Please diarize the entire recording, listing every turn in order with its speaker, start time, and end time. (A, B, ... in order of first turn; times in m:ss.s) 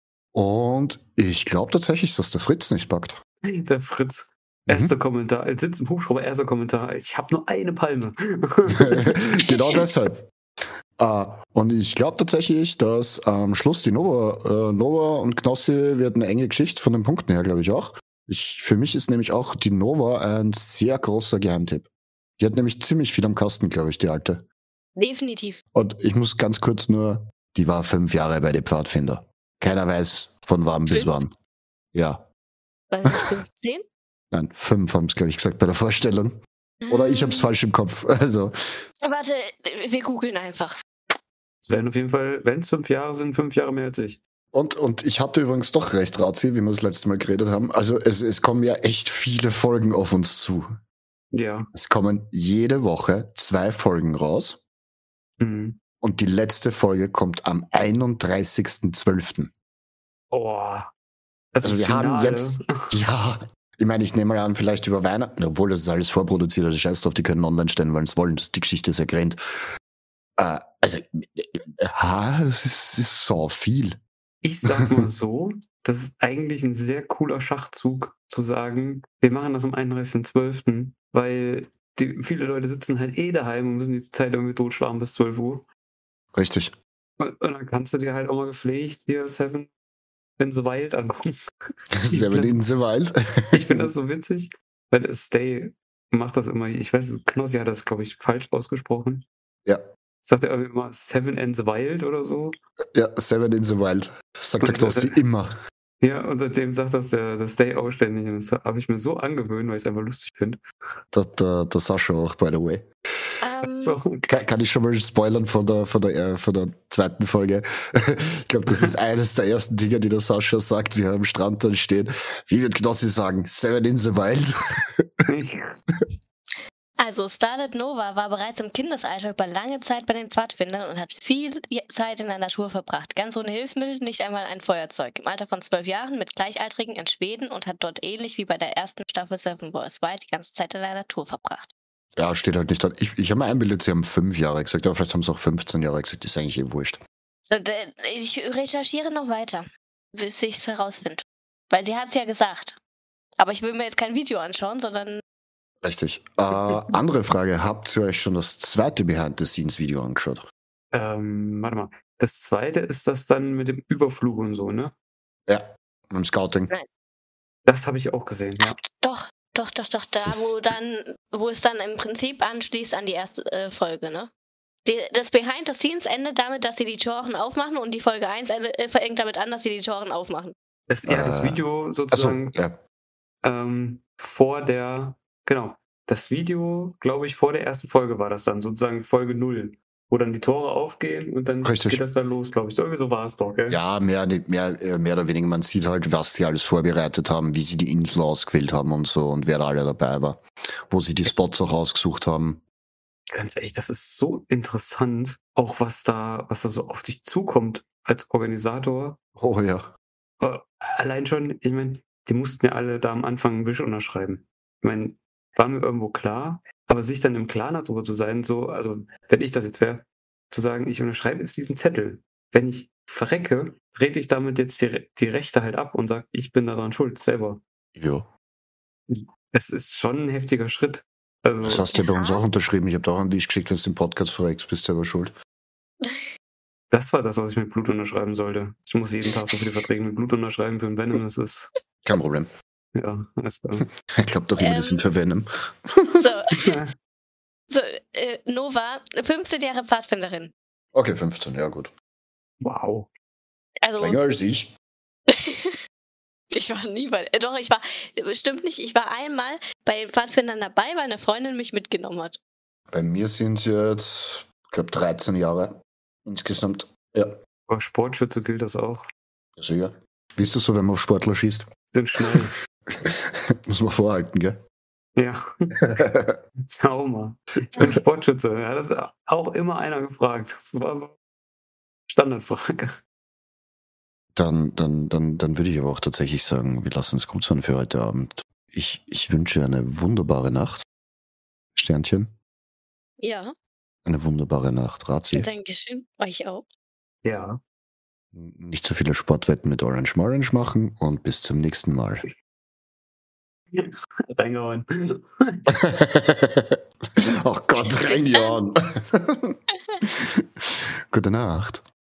0:00.3-0:03.2 A
0:03.4-0:09.2 B
0:04.7-0:04.9 A
0:08.8-0:10.3 A
0:11.0-0:24.4 A
0:25.0-0:25.6 C
0:25.7-0:31.3 A
0:31.9-0:32.3 A
0:32.9-0:33.8 C
0:34.3-0:38.5 A
0:36.8-0:37.5 C
0:39.0-0:40.7 C
0:41.6-0:44.2 B
0:44.5-0:50.7 A
0:51.3-0:51.7 B
0:51.7-0:54.6 A
0:55.4-0:55.8 B
0:56.0-0:59.5 A
1:00.3-1:00.9 B
1:01.5-1:02.7 B
1:01.6-1:09.4 A
1:10.4-1:14.0 A
1:14.4-1:25.6 B
1:14.7-1:15.0 A
1:26.3-1:26.7 A
1:27.2-1:29.7 B
1:30.4-1:31.3 B
1:31.9-1:33.9 A
1:32.1-1:32.5 B
1:33.5-1:39.2 B
1:40.2-1:42.5 B
1:42.9-1:45.5 A
1:44.6-1:45.2 B
1:46.0-1:50.6 B
1:51.1-1:52.9 A
1:53.4-1:54.0 C
1:53.7-1:54.3 B
1:54.3-2:05.2 A
2:05.3-2:05.7 B
2:07.0-2:21.7 C
2:22.2-2:27.0 A
2:27.4-2:32.8 C
2:33.4-2:35.2 C
2:35.8-2:40.4 A
2:40.9-2:44.9 B
2:45.5-2:46.7 A
2:47.6-2:48.8 B
2:48.6-2:54.3 C
2:50.1-2:50.6 A
2:54.8-3:00.5 C
3:00.9-3:02.5 B
3:01.0-3:01.6 A
3:02.1-3:02.8 A
3:03.4-3:13.8 B
3:11.6-3:12.0 A
3:13.7-3:22.6 A
3:23.3-3:29.2 B
3:29.4-3:29.9 A
3:30.4-3:47.6 B
3:48.0-3:48.3 A
3:49.1-3:51.9 B
3:51.6-3:55.3 A
3:51.9-3:52.4 C
3:56.9-4:01.7 B
4:02.0-4:02.5 A
4:02.9-4:03.8 B
4:04.1-4:06.3 A
4:04.6-4:05.0 C
4:06.2-4:06.6 C
4:06.6-4:06.9 B
4:07.7-4:10.5 C
4:10.9-4:11.9 A
4:12.6-4:13.1 B
4:13.8-4:14.2 C
4:14.0-4:14.7 A
4:15.3-4:15.8 C
4:16.5-4:22.4 C
4:22.9-4:27.3 A
4:27.7-4:29.1 B
4:29.6-4:31.7 A
4:31.9-4:32.5 B
4:32.2-4:34.6 A
4:35.2-4:35.7 B
4:35.8-4:36.4 A
4:36.6-4:41.1 B
4:42.1-4:43.0 B
4:44.3-4:50.8 A
4:51.7-4:52.3 A
4:53.2-4:53.5 C
4:54.0-4:55.5 A
4:55.3-4:56.6 C
4:57.2-4:57.6 B
4:58.3-5:02.2 A
5:03.7-5:05.6 B
5:05.7-5:06.8 A
5:07.4-5:10.4 A
5:08.0-5:08.6 C
5:11.1-5:11.8 A